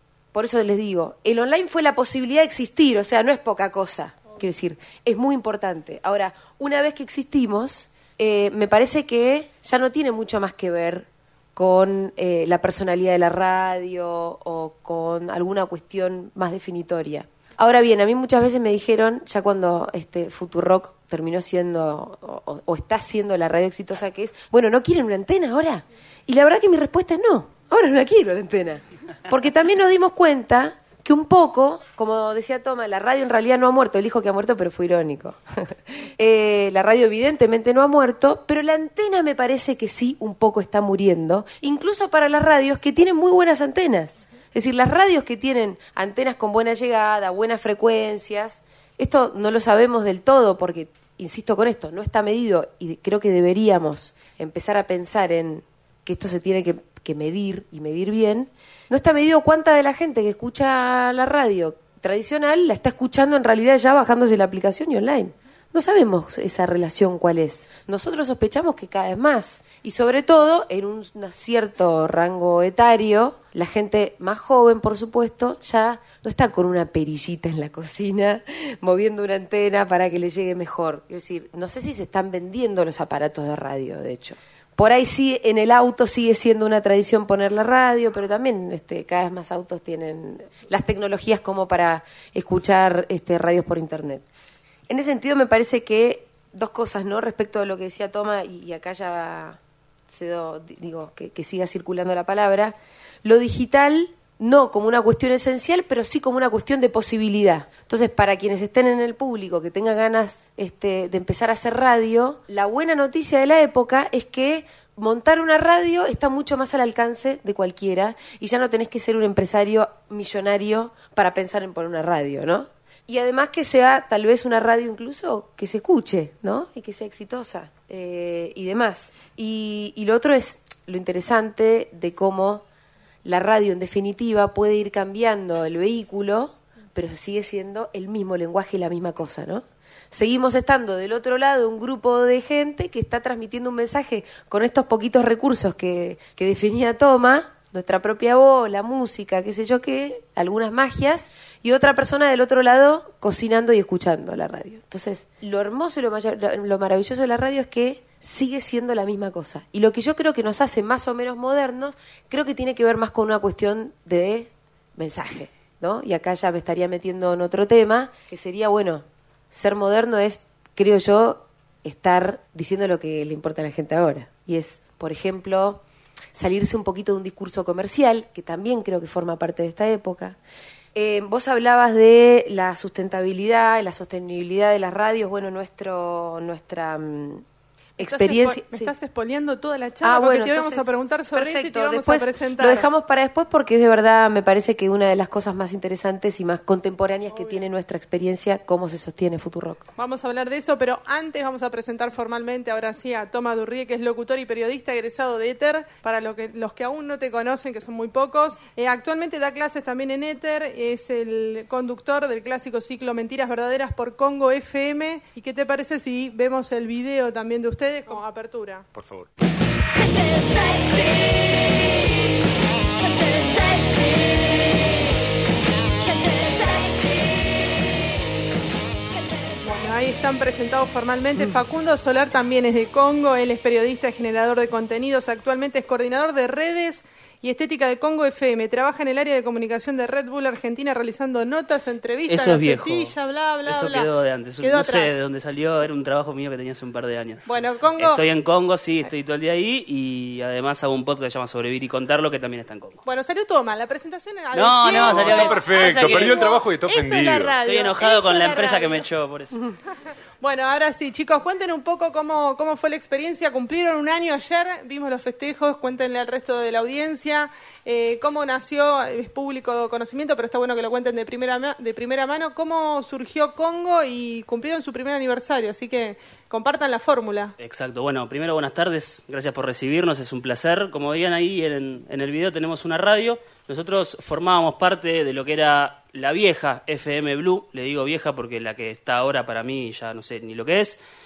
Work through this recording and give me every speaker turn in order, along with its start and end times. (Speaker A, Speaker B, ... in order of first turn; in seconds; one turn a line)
Speaker A: 0.3-94.2
Speaker A: 94.9-99.6
Speaker A: 100.1-132.6
Speaker A: 133.2-175.8
Speaker A: 176.3-180.4
Speaker A: 180.9-187.4
Speaker A: 188.0-188.9
Speaker B: 188.0-192.9
Speaker A: 190.0-199.8
Speaker B: 197.3-197.6
Speaker B: 200.0-218.9
Speaker C: 218.9-219.3
Speaker B: 229.6-245.2
Speaker D: 242.3-247.4
Speaker B: 247.5-248.2
Speaker D: 248.0-253.0
Speaker B: 253.1-259.1
Speaker D: 254.5-256.5
Speaker C: 254.9-257.5
Speaker D: 257.6-259.6
Speaker B: 260.4-277.5
Speaker D: 277.6-291.0